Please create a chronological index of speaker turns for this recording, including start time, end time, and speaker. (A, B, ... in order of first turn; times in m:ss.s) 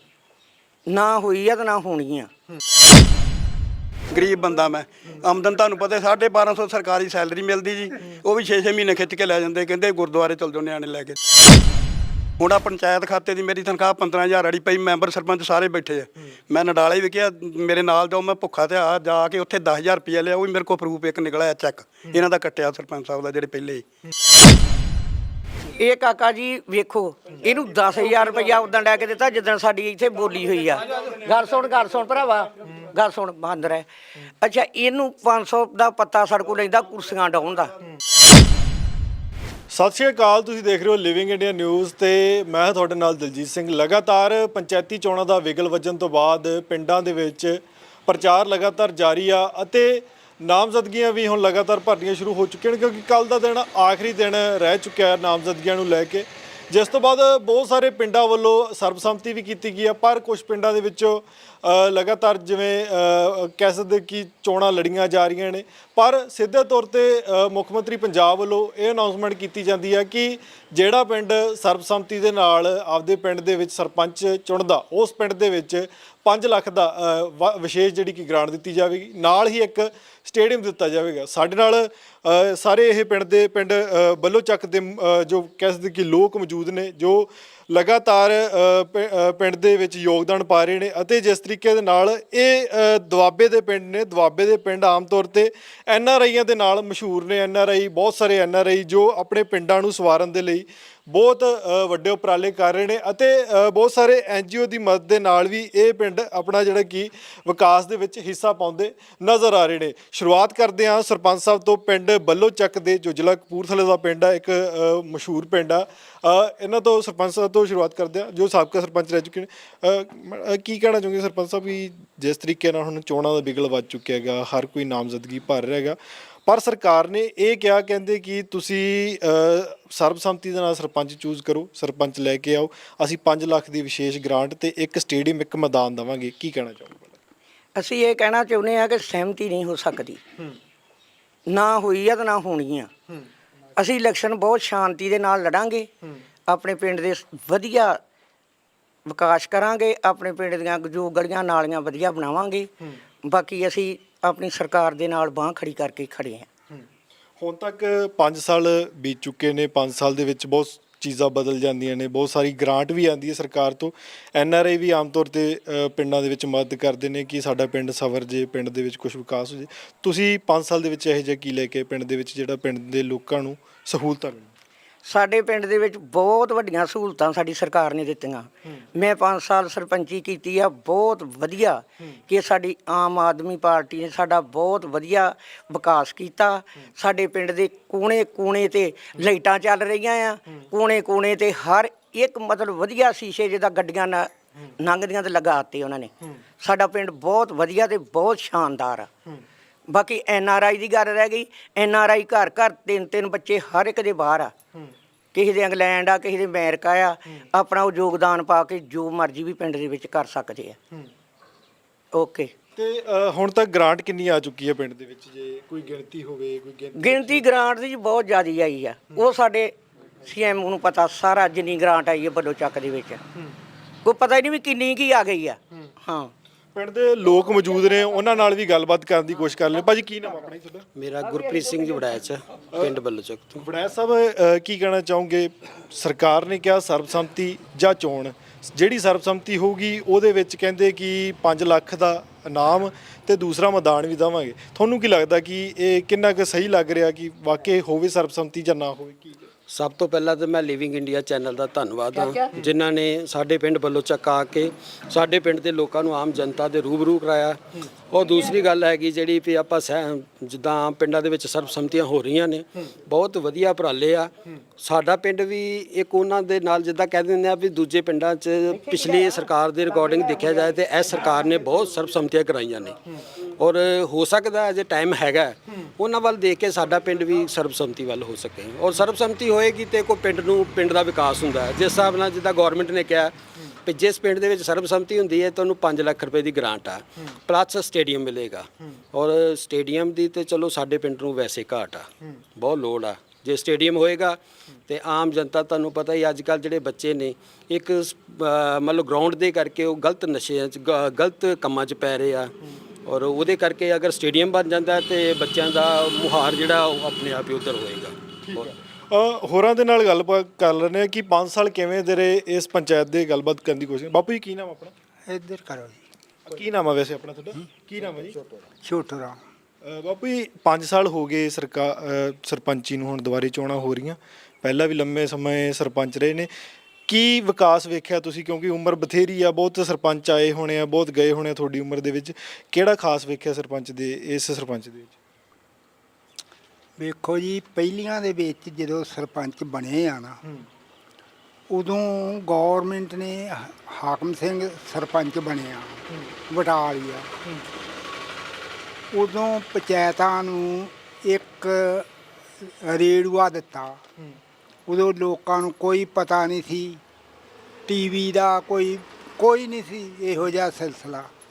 0:00.9-0:02.3 A
0:04.1-0:11.2 B
0:12.4-0:23.8 B
0:25.8-0:33.9 A
0:34.4-0:37.7 A
0:39.7-2:17.2 C
2:17.8-2:20.2 A
2:21.5-2:22.9 A
2:23.8-2:25.9 A
2:26.5-2:28.0 A
2:29.0-2:32.7 A
2:33.2-2:36.5 A
2:37.4-2:54.5 C
2:55.0-3:19.1 A
3:19.9-3:24.5 A
3:25.3-3:30.8 A
3:32.1-3:32.5 A
3:32.8-3:37.4 C
3:37.0-3:43.2 A
3:44.0-3:46.3 A
3:46.7-3:50.8 C
3:51.0-3:53.6 D
3:51.5-3:52.0 A
3:53.6-4:09.5 C
4:09.7-4:33.0 D
4:12.2-4:12.5 A
4:33.6-5:02.5 D
5:03.0-5:08.7 D
5:08.4-5:14.9 C
5:15.2-5:16.0 E
5:16.5-5:18.4 C
5:18.8-5:19.4 E
5:19.8-5:26.5 C
5:27.1-5:35.1 C
5:37.0-5:40.4 E
5:41.7-5:47.3 E
5:49.1-5:52.1 E
5:52.7-5:54.0 E
5:54.9-5:57.0 E
5:57.9-6:01.3 E